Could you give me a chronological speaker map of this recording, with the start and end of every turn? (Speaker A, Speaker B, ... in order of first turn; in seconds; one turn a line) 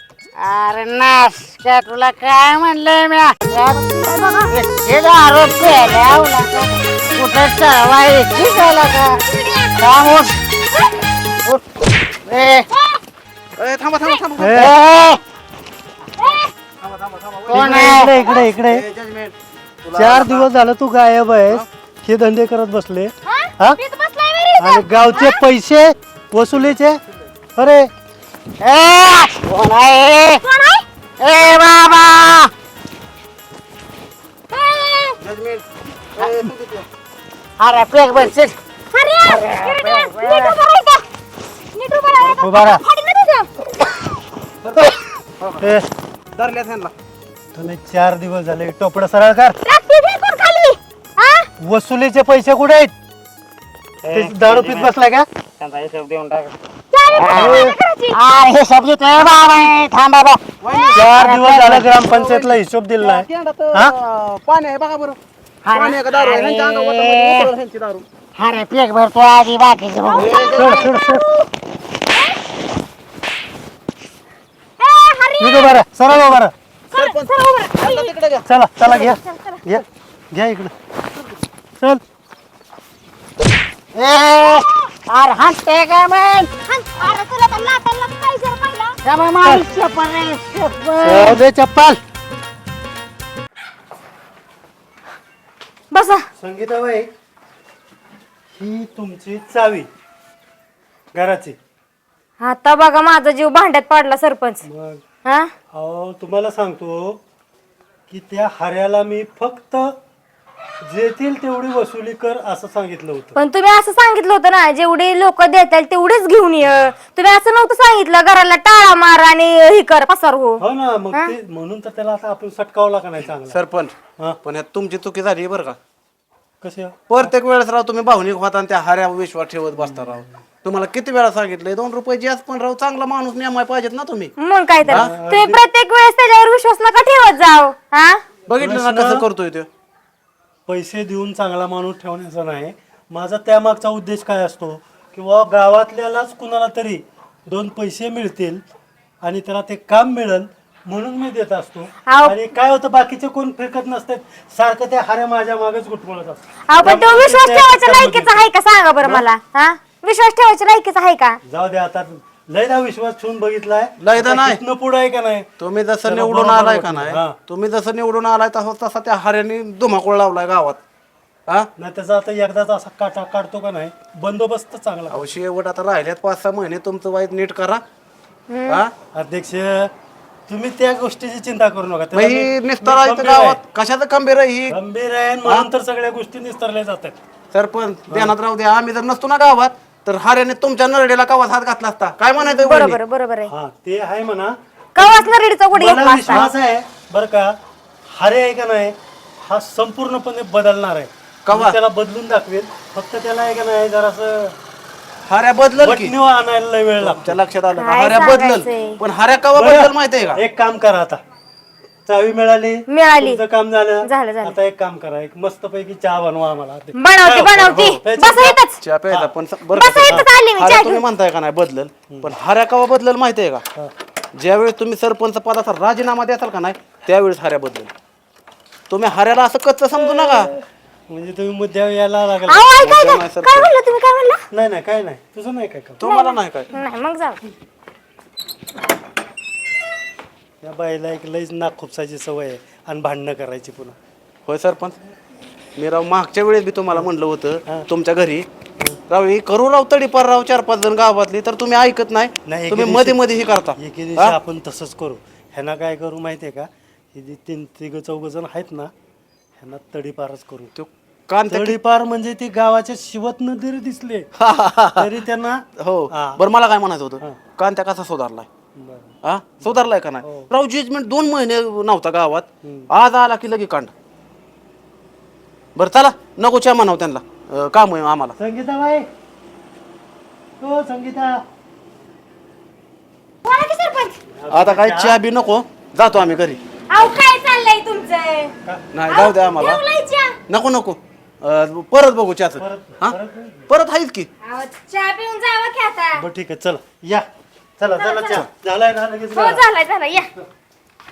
Speaker A: 0.4-3.8
Speaker B: 3.9-4.5
Speaker A: 4.5-9.2
Speaker B: 9.3-9.8
Speaker A: 9.8-10.4
Speaker A: 11.4-12.7
Speaker B: 12.7-13.0
Speaker C: 13.6-14.6
Speaker D: 14.4-14.7
Speaker A: 14.5-15.2
Speaker B: 16.2-16.5
Speaker C: 16.8-20.5
Speaker A: 17.5-18.2
Speaker D: 17.5-18.9
Speaker D: 19.9-23.8
Speaker B: 23.3-25.4
Speaker D: 24.6-27.0
Speaker D: 27.6-27.9
Speaker A: 28.6-30.4
Speaker B: 30.4-30.9
Speaker A: 31.2-32.5
Speaker B: 34.5-35.2
Speaker C: 35.2-35.6
Speaker C: 36.2-36.9
Speaker A: 37.6-38.6
Speaker B: 38.9-41.0
Speaker A: 39.2-40.6
Speaker B: 41.8-43.5
Speaker D: 42.4-42.8
Speaker C: 45.4-45.7
Speaker D: 45.6-45.9
Speaker C: 46.4-46.9
Speaker D: 47.5-49.6
Speaker B: 49.7-51.5
Speaker D: 51.6-52.9
Speaker E: 54.0-54.9
Speaker D: 54.1-55.3
Speaker E: 55.6-56.5
Speaker B: 56.9-58.2
Speaker A: 57.2-60.4
Speaker E: 57.4-57.7
Speaker C: 60.6-61.2
Speaker B: 60.7-61.0
Speaker E: 61.0-61.9
Speaker A: 61.0-61.8
Speaker D: 61.1-63.9
Speaker C: 61.9-65.2
Speaker A: 65.7-67.5
Speaker C: 65.7-68.1
Speaker A: 68.4-70.7
Speaker B: 70.1-71.5
Speaker C: 70.1-70.8
Speaker D: 70.5-71.2
Speaker B: 74.8-75.7
Speaker D: 75.4-76.5
Speaker B: 76.9-78.1
Speaker C: 76.9-78.5
Speaker D: 78.5-80.7
Speaker B: 78.8-79.8
Speaker A: 84.0-86.5
Speaker B: 86.7-89.0
Speaker A: 89.0-91.4
Speaker D: 91.0-92.0
Speaker B: 95.9-96.2
Speaker D: 96.4-97.1
Speaker D: 98.5-99.9
Speaker D: 101.2-101.6
Speaker B: 102.4-104.7
Speaker D: 104.7-105.0
Speaker D: 105.7-107.2
Speaker D: 108.1-109.9
Speaker D: 110.8-113.3
Speaker B: 113.4-121.3
Speaker D: 120.6-123.6
Speaker C: 123.5-125.8
Speaker D: 126.6-127.3
Speaker C: 127.1-134.3
Speaker B: 134.4-138.2
Speaker D: 134.8-135.6
Speaker C: 134.9-135.1
Speaker C: 138.5-139.7
Speaker D: 138.6-139.3
Speaker D: 140.7-148.6
Speaker D: 149.2-158.5
Speaker B: 152.1-152.3
Speaker B: 156.7-161.4
Speaker D: 161.5-165.5
Speaker C: 164.0-164.6
Speaker C: 165.6-170.8
Speaker D: 166.1-167.4
Speaker D: 171.8-175.3
Speaker C: 175.1-177.8
Speaker B: 178.5-178.8
Speaker D: 179.1-179.9
Speaker D: 180.5-183.6
Speaker C: 182.1-184.8
Speaker D: 184.7-187.2
Speaker C: 187.5-193.0
Speaker B: 192.4-193.5
Speaker D: 193.5-197.5
Speaker B: 195.0-196.5
Speaker D: 198.2-204.6
Speaker C: 201.5-201.8
Speaker C: 205.3-206.2
Speaker D: 205.8-207.4
Speaker C: 207.0-210.4
Speaker B: 207.8-209.0
Speaker D: 209.5-211.2
Speaker D: 212.1-218.6
Speaker B: 212.9-213.4
Speaker B: 214.0-214.6
Speaker B: 217.0-218.8
Speaker C: 217.7-218.0
Speaker C: 218.8-223.6
Speaker B: 219.8-221.0
Speaker D: 222.1-222.3
Speaker C: 224.4-227.9
Speaker C: 228.9-230.5
Speaker D: 230.0-230.3
Speaker D: 231.1-232.8
Speaker B: 232.5-234.4
Speaker C: 232.8-233.7
Speaker D: 234.5-236.0
Speaker C: 236.0-236.7
Speaker B: 236.0-237.4
Speaker D: 240.6-244.0
Speaker C: 244.5-245.0
Speaker C: 245.8-248.5
Speaker C: 249.1-254.4
Speaker D: 252.4-253.2
Speaker D: 253.8-258.9
Speaker D: 259.6-260.7
Speaker C: 260.8-261.8
Speaker D: 261.5-264.3
Speaker C: 264.4-265.1
Speaker D: 265.0-266.4
Speaker C: 265.8-268.5
Speaker D: 268.8-270.5
Speaker C: 269.2-273.9
Speaker C: 275.8-278.4
Speaker D: 278.4-279.1
Speaker D: 280.6-281.4
Speaker B: 283.4-284.2
Speaker D: 284.4-285.2
Speaker C: 284.5-286.6
Speaker B: 286.9-288.5
Speaker C: 288.9-289.8
Speaker B: 289.1-290.4
Speaker C: 290.5-293.2
Speaker D: 292.6-293.7
Speaker C: 293.7-294.3
Speaker B: 294.4-296.2
Speaker D: 296.2-297.3
Speaker D: 297.8-299.6
Speaker B: 298.0-298.4
Speaker B: 299.3-300.3